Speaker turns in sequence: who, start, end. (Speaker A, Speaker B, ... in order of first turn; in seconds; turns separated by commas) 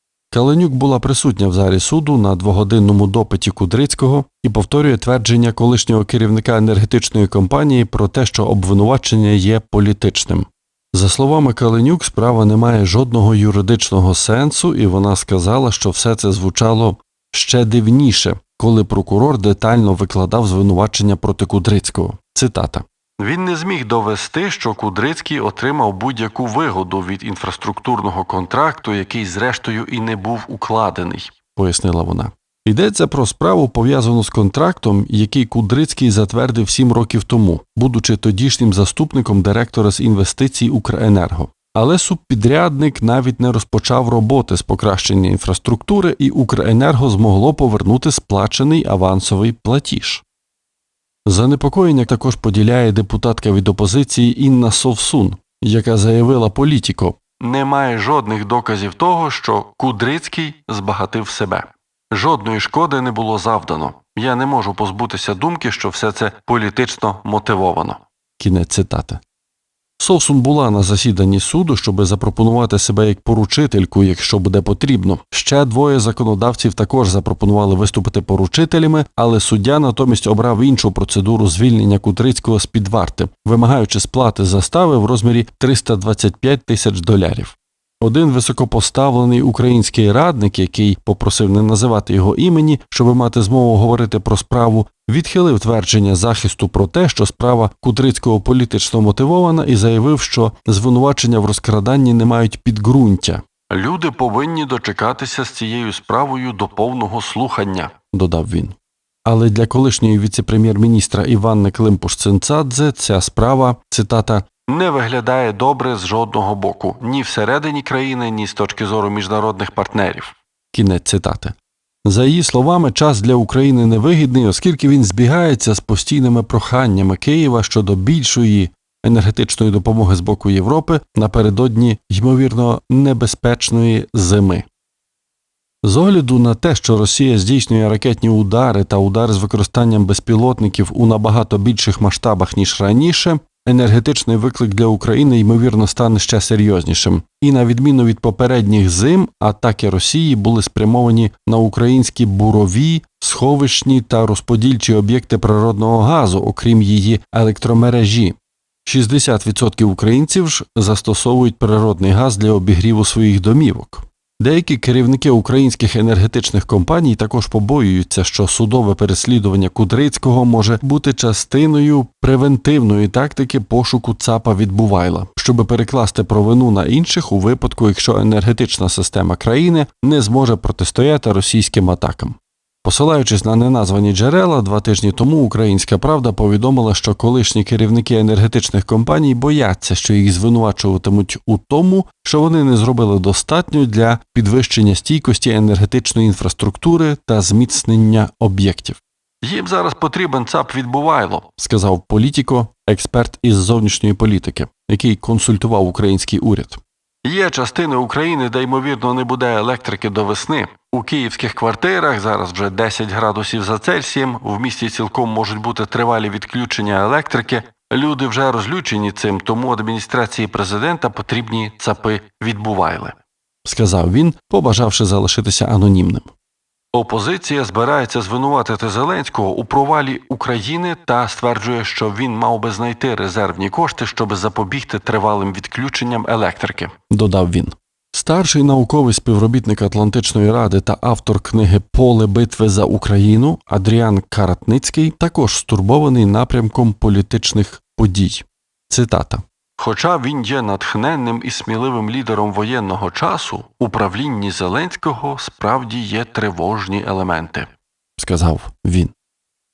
Speaker A: 0.3-50.2, Speaker A: 51.2-69.2, Speaker A: 70.0-134.7, Speaker A: 135.8-226.3, Speaker A: 226.9-259.1